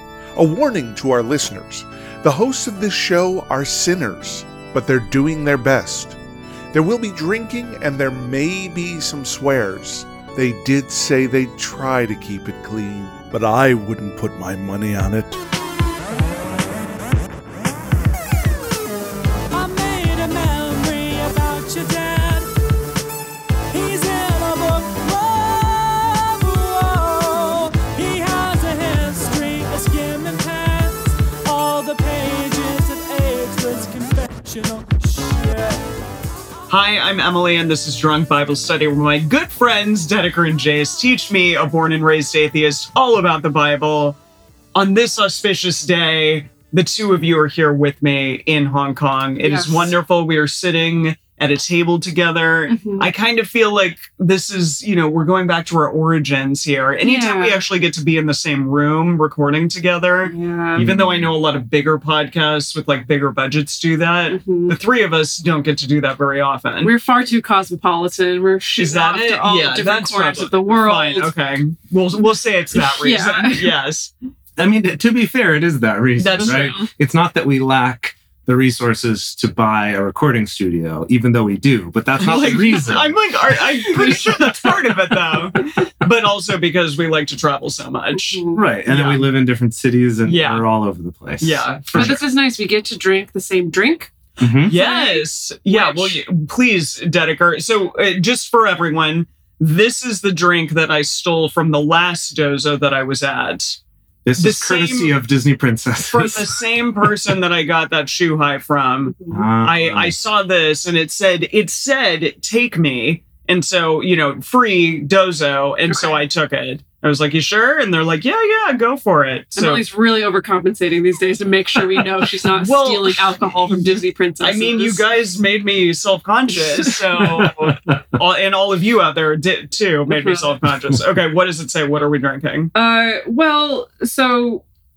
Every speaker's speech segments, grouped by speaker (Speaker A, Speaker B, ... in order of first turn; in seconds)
Speaker A: 0.3-6.2, 6.7-15.4
Speaker B: 19.5-22.5, 23.7-35.9
Speaker C: 36.7-44.2, 44.8-66.9, 68.8-74.1, 76.2-76.8, 82.2-89.3, 90.2-90.7, 91.4-92.2, 94.7-103.8, 104.4-105.2, 106.1-119.8, 122.5-123.5, 124.4-132.7
Speaker D: 49.4-49.9, 52.7-53.1, 57.0-57.6, 60.2-60.9, 64.3-64.8, 66.8-71.3, 72.7-73.7, 76.4-76.9, 83.9-84.8, 88.1-88.6, 91.9-94.1, 94.7-96.2, 109.1-109.5, 115.9-116.2, 119.5-125.0, 130.1-130.5, 132.7-134.6
Speaker E: 60.8-61.3, 74.6-84.3, 88.5-92.2, 94.4-94.7, 104.2-106.6, 109.3-110.2, 127.4-127.7